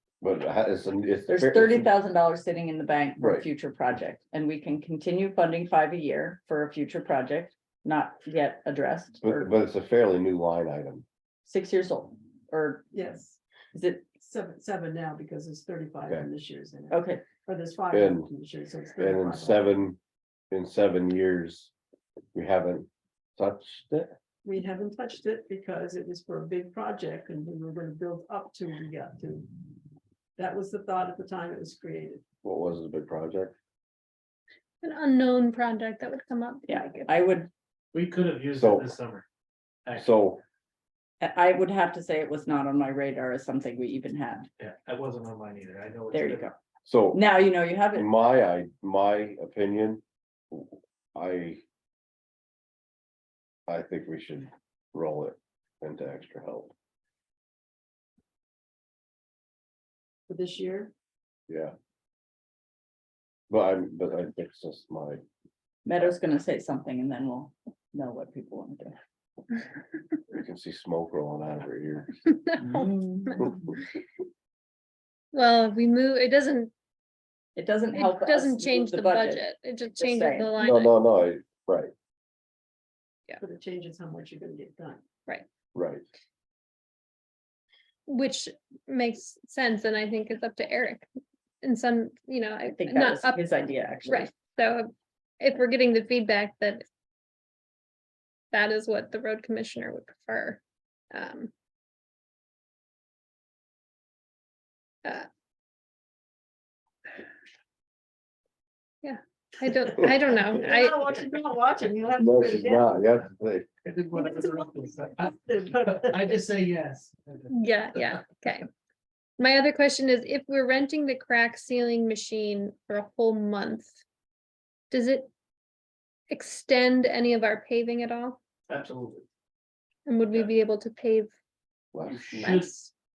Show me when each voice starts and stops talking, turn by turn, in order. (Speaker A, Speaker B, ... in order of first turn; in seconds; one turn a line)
Speaker A: 0.2-1.9
Speaker B: 1.3-9.5
Speaker A: 3.2-3.4
Speaker A: 9.2-11.0
Speaker B: 11.4-12.8
Speaker C: 12.9-13.4
Speaker B: 13.7-14.1
Speaker C: 14.2-19.8
Speaker B: 16.9-17.2
Speaker A: 17.9-18.3
Speaker A: 19.0-20.0
Speaker A: 20.5-21.7
Speaker A: 22.3-24.1
Speaker C: 24.4-29.5
Speaker C: 30.4-32.2
Speaker A: 32.4-33.5
Speaker D: 34.8-37.4
Speaker B: 36.7-37.5
Speaker E: 37.9-39.2
Speaker A: 38.5-38.9
Speaker A: 40.0-40.4
Speaker B: 41.2-44.5
Speaker E: 44.6-46.5
Speaker B: 46.1-46.5
Speaker A: 46.9-47.3
Speaker B: 47.1-48.1
Speaker A: 47.9-51.6
Speaker A: 53.7-56.7
Speaker C: 60.3-60.9
Speaker A: 61.5-61.7
Speaker A: 63.5-65.2
Speaker B: 65.8-69.0
Speaker A: 70.3-72.2
Speaker B: 72.6-73.6
Speaker D: 75.3-76.7
Speaker B: 77.5-79.5
Speaker D: 78.0-80.9
Speaker B: 80.0-80.5
Speaker A: 80.6-81.9
Speaker C: 83.4-85.0
Speaker A: 85.7-86.0
Speaker D: 88.1-91.1
Speaker D: 91.6-93.4
Speaker B: 92.7-94.3
Speaker D: 94.0-96.8
Speaker D: 98.5-101.5
Speaker D: 109.0-110.9
Speaker C: 110.4-113.0
Speaker A: 112.2-113.7
Speaker E: 113.8-115.3
Speaker C: 114.2-114.7
Speaker C: 115.2-116.3
Speaker E: 115.8-118.2
Speaker D: 117.5-118.7
Speaker D: 119.4-123.9
Speaker D: 124.9-125.3
Speaker D: 126.3-128.4
Speaker E: 128.7-129.2
Speaker D: 130.1-131.3
Speaker A: 131.9-132.6
Speaker E: 132.1-132.7
Speaker D: 132.3-132.9